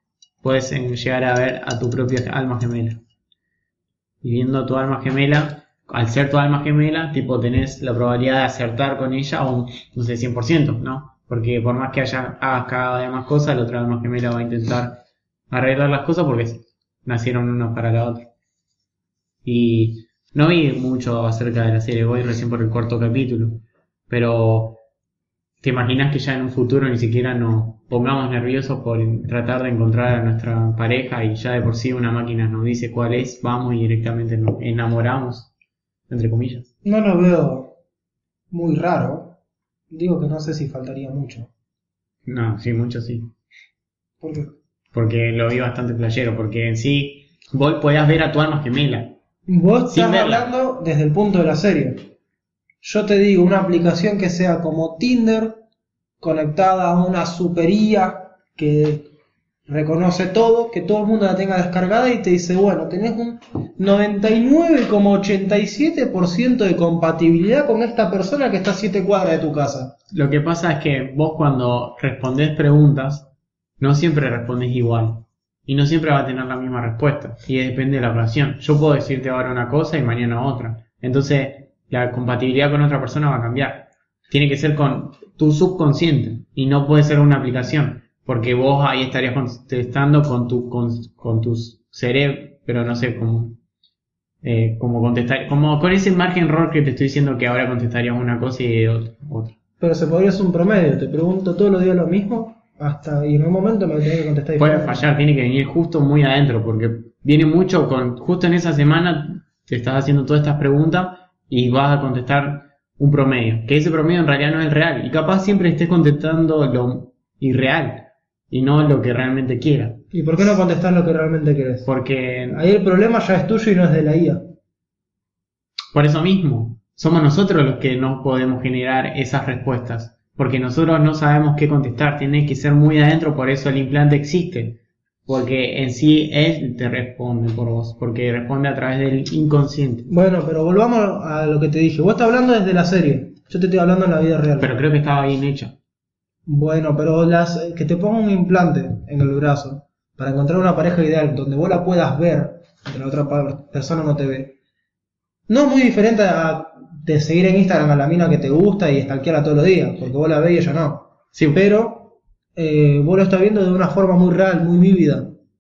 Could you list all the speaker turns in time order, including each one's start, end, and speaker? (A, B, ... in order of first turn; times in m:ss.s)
0:00.4-0:03.0 A
0:04.2-0:15.0 A
0:15.5-0:18.3 A
0:19.4-0:24.8 A
0:25.6-0:35.5 A
0:36.1-0:36.7 A
0:36.8-0:37.7 B
0:38.5-0:39.4 B
0:39.9-0:41.5 B
0:42.3-0:43.3 A
0:44.2-0:44.5 B
0:44.9-0:49.1 A
0:49.5-0:52.1 B
0:49.9-0:50.5 A
0:52.8-0:55.6 B
0:56.2-0:59.1 B
0:59.7-1:10.0 B
1:10.1-1:13.3 A
1:13.8-1:33.6 A
1:34.4-1:39.6 A
1:39.8-1:45.1 B
1:44.6-2:00.0 A
2:00.1-2:01.9 B
2:01.8-2:02.6 A
2:02.5-2:04.4 B
2:05.9-2:20.1 A
2:20.1-2:24.8 B
2:24.6-2:25.7 A
2:26.4-2:34.6 B
2:35.5-2:45.3 B
2:41.3-2:41.6 A